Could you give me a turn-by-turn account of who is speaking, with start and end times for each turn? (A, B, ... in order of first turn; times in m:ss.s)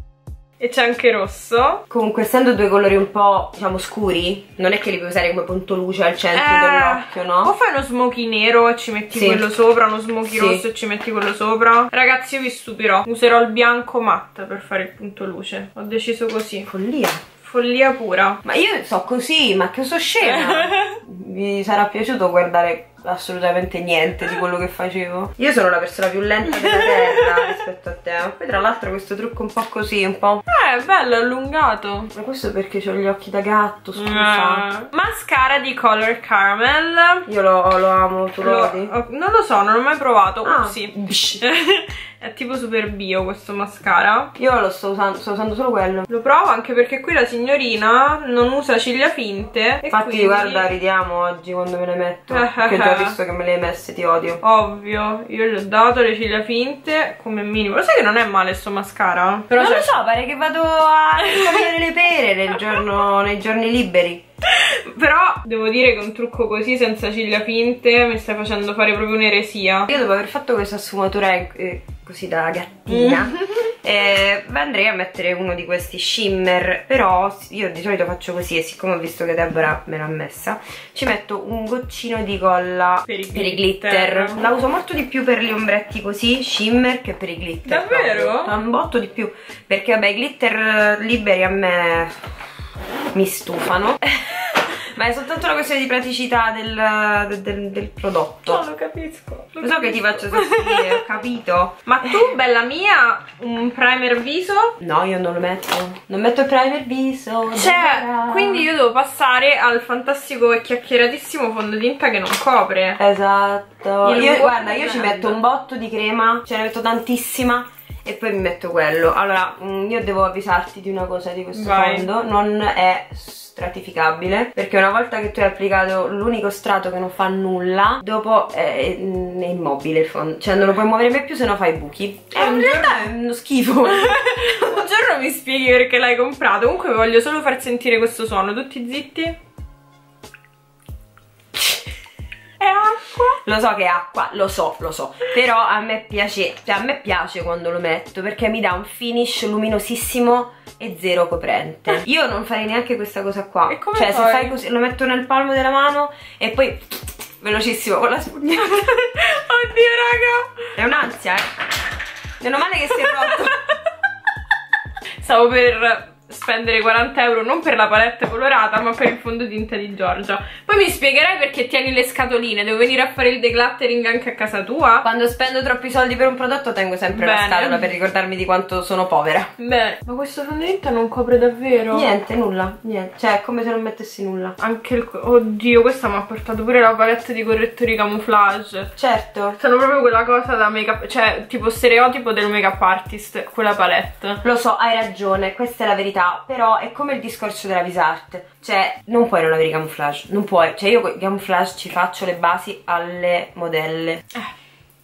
0:00.6-0:01.8 A
0:01.9-0:07.5 B
0:06.3-0:16.7 A
0:09.1-0:09.4 B
0:10.2-0:10.6 B
0:16.7-0:17.2 B
0:17.4-0:18.4 A
0:18.4-0:30.4 B
0:20.2-0:21.0 A
0:26.5-0:27.6 A
0:30.5-0:32.1 A
0:32.1-0:34.7 B
0:34.0-0:37.3 A
0:37.3-0:38.9 B
0:38.4-0:44.3 A
0:40.4-0:41.4 B
0:44.4-0:46.1 B
0:46.1-0:50.7 A
0:49.9-0:54.4 B
0:52.3-0:53.2 A
0:54.4-1:00.0 A
0:59.5-1:04.2 B
1:01.2-1:01.7 A
1:04.4-1:09.9 A
1:09.9-1:32.2 B
1:12.9-1:13.7 A
1:23.1-1:24.4 A
1:27.6-1:28.5 A
1:33.1-1:38.6 B
1:38.5-1:41.0 A
1:39.6-1:42.3 B
1:41.8-1:44.7 A
1:44.8-1:48.7 B
1:47.5-1:53.0 A
1:53.0-2:14.8 B
1:54.0-1:55.4 A
2:01.5-2:02.1 A
2:12.3-2:13.1 A
2:13.8-2:19.4 A
2:22.6-2:23.4 A
2:23.4-2:38.9 B
2:33.7-2:34.6 A
2:38.7-2:41.0 A
2:40.8-2:41.5 B
2:42.4-2:43.6 B
2:43.0-2:43.4 A
2:45.2-2:55.1 A
2:55.0-2:59.5 B
2:57.1-2:57.8 A
2:59.6-3:02.1 A
3:01.9-3:04.6 B
3:04.6-3:08.9 A
3:09.0-3:09.6 B
3:09.6-3:14.4 A
3:14.4-3:24.2 B